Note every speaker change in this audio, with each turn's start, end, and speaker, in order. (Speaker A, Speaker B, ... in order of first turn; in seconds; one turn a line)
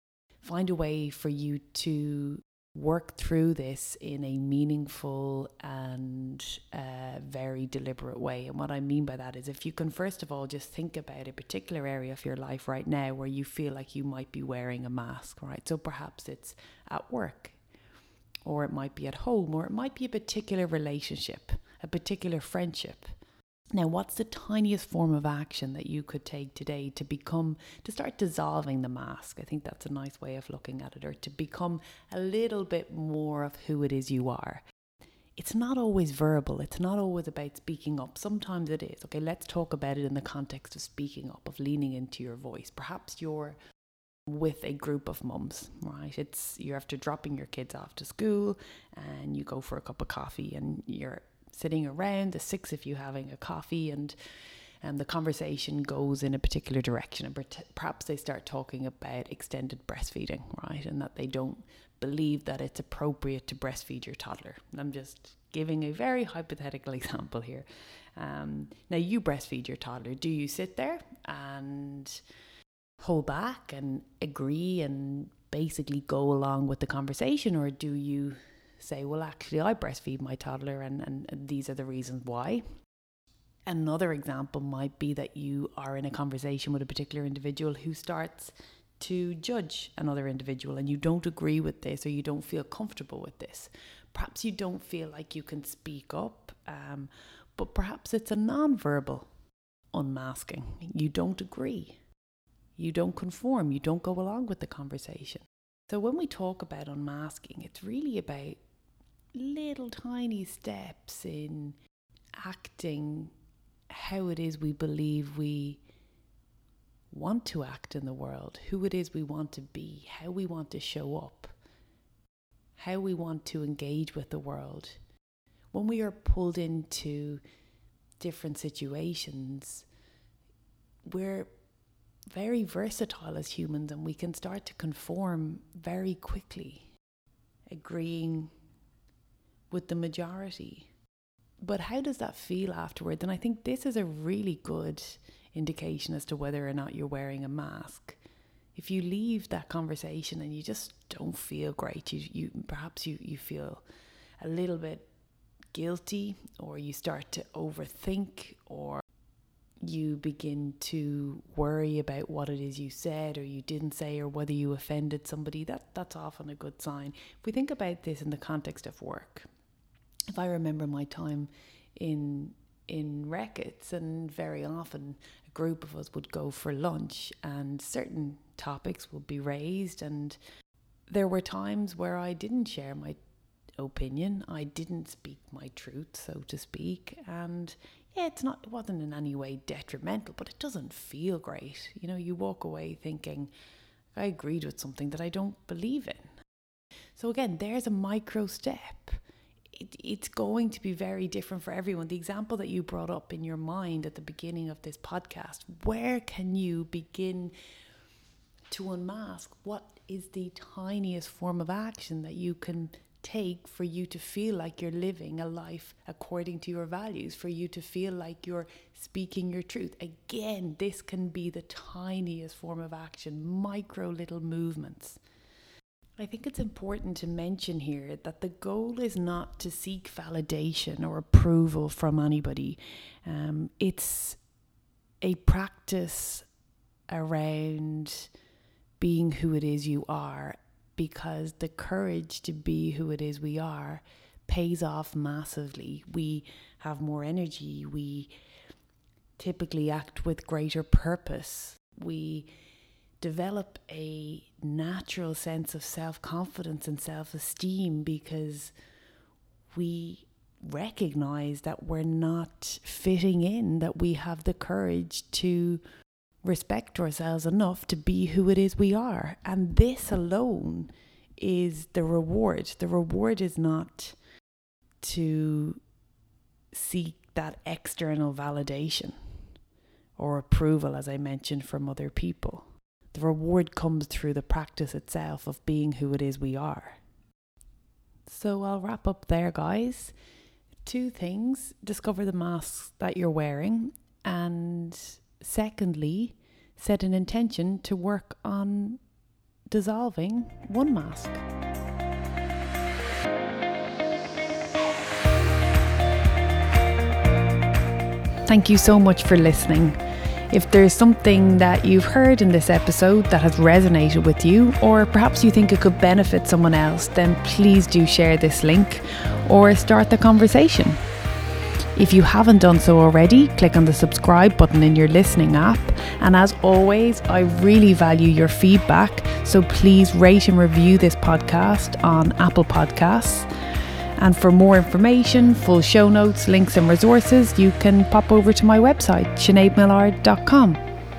Speaker A: 0.4-17.6
Speaker A: 18.4-23.1
Speaker A: 23.7-34.6
Speaker A: 35.4-43.6
Speaker A: 44.3-54.2
Speaker A: 54.8-72.2
Speaker A: 73.0-82.6
Speaker A: 83.7-99.3
Speaker A: 99.9-102.0
Speaker A: 102.8-108.6
Speaker A: 109.3-111.8
Speaker A: 112.4-113.3
Speaker A: 113.9-115.8
Speaker A: 117.1-121.5
Speaker A: 122.8-125.0
Speaker A: 125.7-127.4
Speaker A: 128.2-129.9
Speaker A: 131.0-131.5
Speaker A: 132.3-136.9
Speaker A: 137.7-138.5
Speaker A: 139.7-140.9
Speaker A: 141.6-148.2
Speaker A: 148.8-153.8
Speaker A: 154.4-155.1
Speaker A: 155.7-159.0
Speaker A: 159.8-169.5
Speaker A: 170.3-180.4
Speaker A: 181.1-183.2
Speaker A: 183.8-193.5
Speaker A: 194.1-196.3
Speaker A: 197.2-199.2
Speaker A: 199.7-207.5
Speaker A: 208.7-225.2
Speaker A: 226.2-234.4
Speaker A: 235.2-236.5
Speaker A: 237.1-238.3
Speaker A: 239.0-248.3
Speaker A: 249.4-252.5
Speaker A: 253.2-258.7
Speaker A: 259.7-265.8
Speaker A: 266.4-274.2
Speaker A: 275.0-275.8
Speaker A: 276.7-279.2
Speaker A: 280.2-287.0
Speaker A: 288.3-290.1
Speaker A: 290.8-299.0
Speaker A: 299.7-301.4
Speaker A: 308.5-321.0
Speaker A: 322.0-333.5
Speaker A: 334.2-340.8